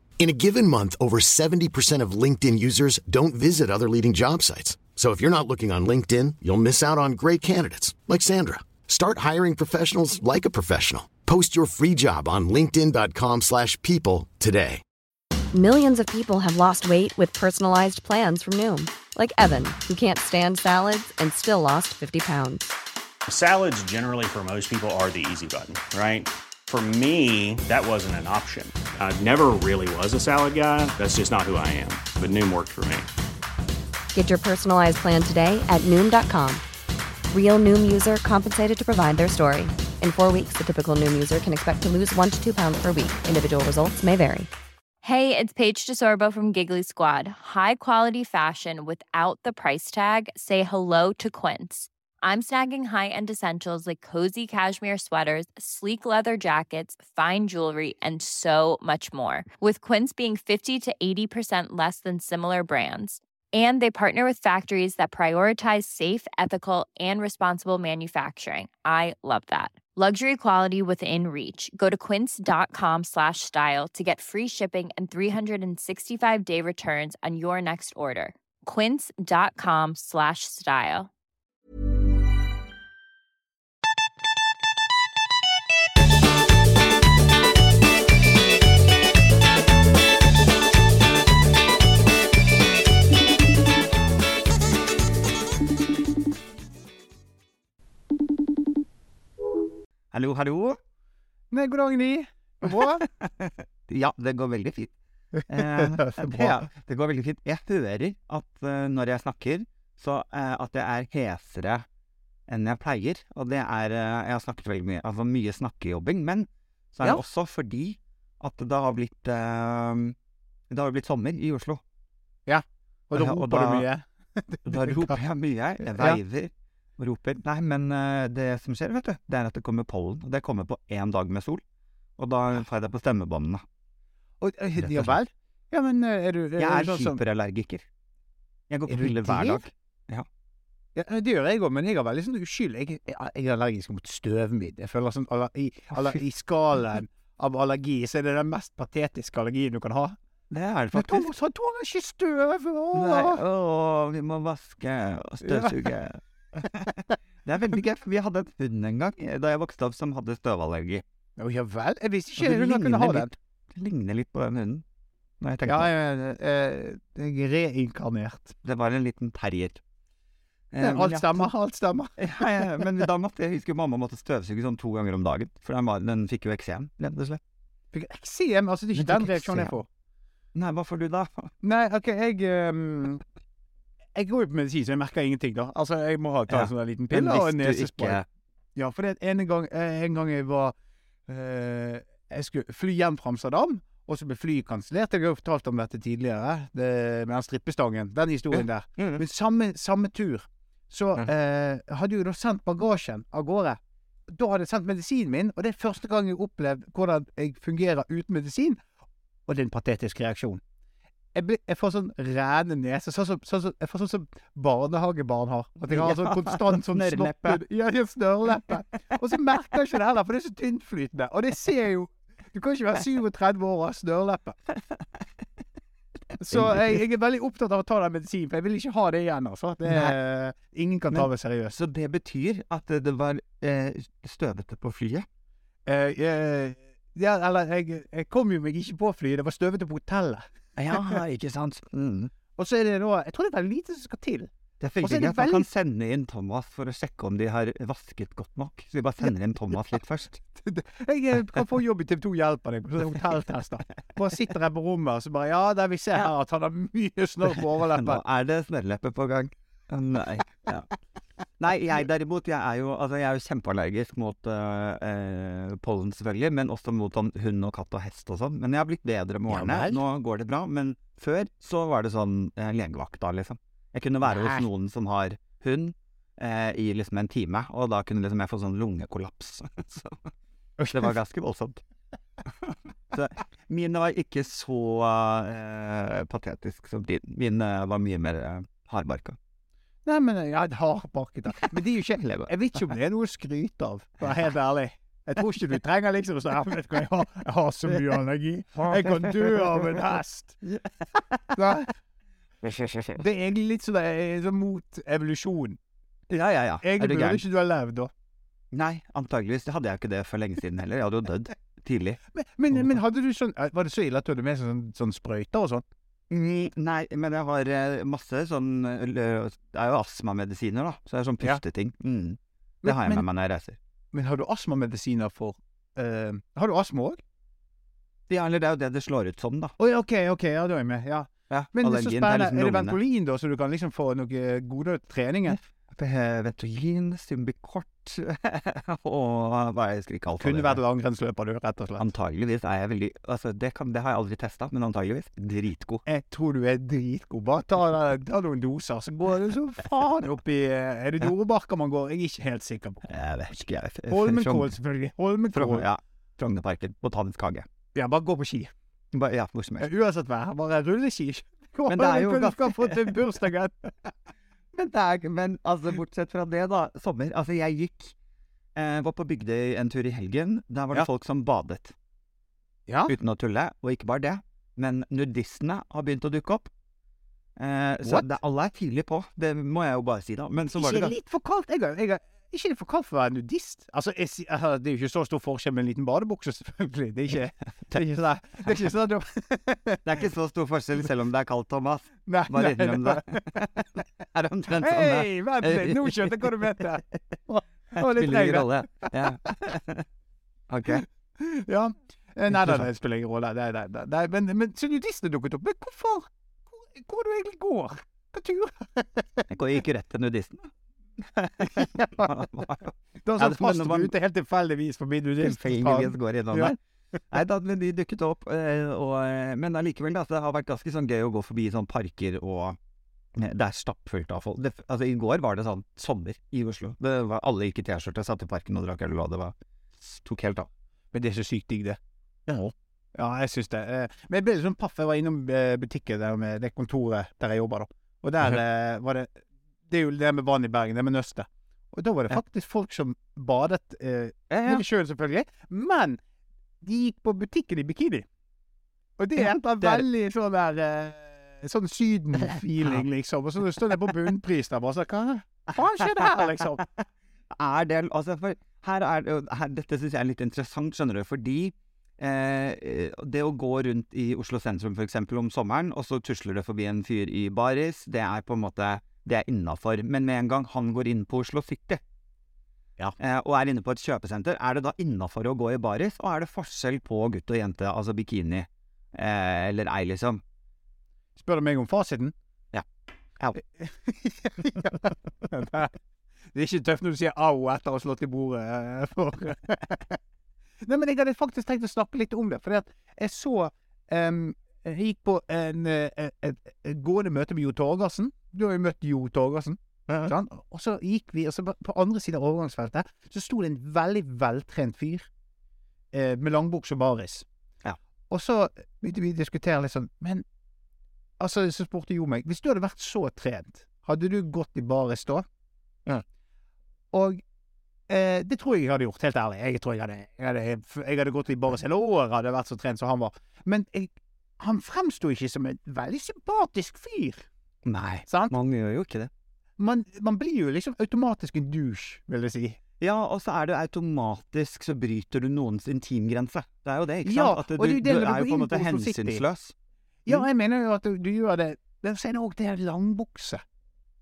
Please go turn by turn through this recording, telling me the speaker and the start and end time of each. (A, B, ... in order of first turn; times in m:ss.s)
0:00.2-0:14.8 A
0:15.5-0:22.7 B
0:23.3-0:33.1 C
0:34.1-0:36.6 B
0:37.3-0:44.5 B
0:45.0-1:21.1 D
1:40.1-1:40.8 E
1:41.5-1:43.1 F
1:43.1-1:44.9 E
1:45.4-1:46.6 F
1:45.5-1:51.8 E
1:52.5-2:00.2 E
2:00.7-2:01.8 E
2:02.5-2:05.2 F
2:03.2-2:03.9 E
2:04.7-2:11.6 E
2:12.2-2:13.6 E
2:14.4-2:17.2 F
2:14.8-2:15.2 E
2:16.6-2:17.8 E
2:18.7-2:20.3 E
2:18.9-2:19.6 F
2:21.0-2:30.2 F
2:25.9-2:26.2 E
2:30.5-2:31.3 E
2:30.9-2:33.4 F
2:32.9-2:41.0 E
2:35.4-2:35.8 F
2:41.4-2:43.3 F
2:42.4-2:44.8 E
2:45.4-2:45.9 E
2:45.6-2:48.6 F
2:48.6-2:49.8 E
2:50.7-2:51.5 E
2:50.8-2:52.9 F
2:52.2-2:57.4 E
2:57.9-2:59.9 F
2:59.0-2:59.8 E
3:00.6-3:01.5 E
3:01.6-3:03.2 F
3:04.2-3:08.2 F
3:06.5-3:08.3 E
3:08.8-3:10.7 F
3:11.3-3:28.8 F
3:18.5-3:19.2 E
3:29.5-3:30.6 F
3:31.4-3:44.6 F
3:35.9-3:37.6 E
3:46.4-3:51.7 F
3:46.5-3:47.0 E
3:49.9-3:50.2 E
3:51.1-3:55.3 E
3:55.9-4:01.2 F
4:00.8-4:02.3 E
4:02.6-4:04.5 F
4:04.8-4:10.4 E
4:05.0-4:05.7 F
4:10.6-4:18.2 F
4:17.9-4:20.9 E
4:21.6-4:40.3 E
4:29.5-4:30.0 F
4:34.3-4:34.6 F
4:40.8-4:41.1 F
4:40.9-4:41.8 E
4:42.6-4:49.4 E
4:50.0-5:00.6 F
4:52.2-4:52.5 E
4:58.8-5:00.0 E
5:00.6-5:01.8 E
5:01.6-5:01.9 F
5:02.6-5:03.2 E
5:03.2-5:05.8 F
5:06.3-5:07.4 E
5:06.8-5:08.1 F
5:08.7-5:12.2 E
5:12.3-5:15.8 F
5:16.3-5:23.8 E
5:22.8-5:23.2 F
5:24.1-5:27.2 F
5:28.3-5:29.7 E
5:29.8-5:35.6 F
5:31.5-5:33.0 E
5:35.5-5:40.8 E
5:40.4-5:42.1 F
5:42.0-5:46.0 E
5:46.0-5:53.1 F
5:53.1-5:54.7 E
5:54.1-5:55.9 F
5:55.5-5:57.7 E
5:58.0-5:58.7 F
5:59.1-5:59.9 E
5:59.8-6:04.1 F
6:01.9-6:03.2 E
6:04.7-6:08.1 E
6:08.8-6:12.0 E
6:12.9-6:13.2 F
6:13.1-6:16.7 E
6:17.6-6:21.1 E
6:18.0-6:18.3 F
6:20.8-6:30.1 F
6:30.0-6:36.6 E
6:32.3-6:33.6 F
6:34.8-6:39.5 F
6:38.0-6:40.1 E
6:40.7-6:41.0 E
6:40.9-6:49.5 F
6:42.5-6:42.8 E
6:49.5-6:54.1 E
6:51.8-6:52.2 F
6:53.2-6:56.8 F
6:55.4-6:56.8 E
6:57.3-7:02.8 E
7:03.4-7:10.7 E
7:11.1-7:12.0 F
7:12.5-7:12.7 E
7:13.2-7:19.3 F
7:19.9-7:26.2 F
7:24.5-7:24.8 E
7:26.8-7:28.3 F
7:29.2-7:36.8 F
7:29.4-7:30.1 E
7:32.4-7:33.0 E
7:36.0-7:52.0 E
7:53.0-8:00.4 E
8:01.4-8:02.3 F
8:03.6-8:06.0 F
8:06.5-8:10.2 F
8:10.8-8:25.3 F
8:20.1-8:20.3 E
8:26.1-8:27.5 F
8:28.3-8:30.4 F
8:31.4-8:35.4 F
8:37.1-8:37.4 F
8:38.1-8:47.5 F
8:47.8-8:49.3 E
8:48.3-8:48.6 F
8:49.8-8:52.8 F
8:53.0-8:59.7 E
8:57.2-8:59.4 F
9:00.3-9:03.6 F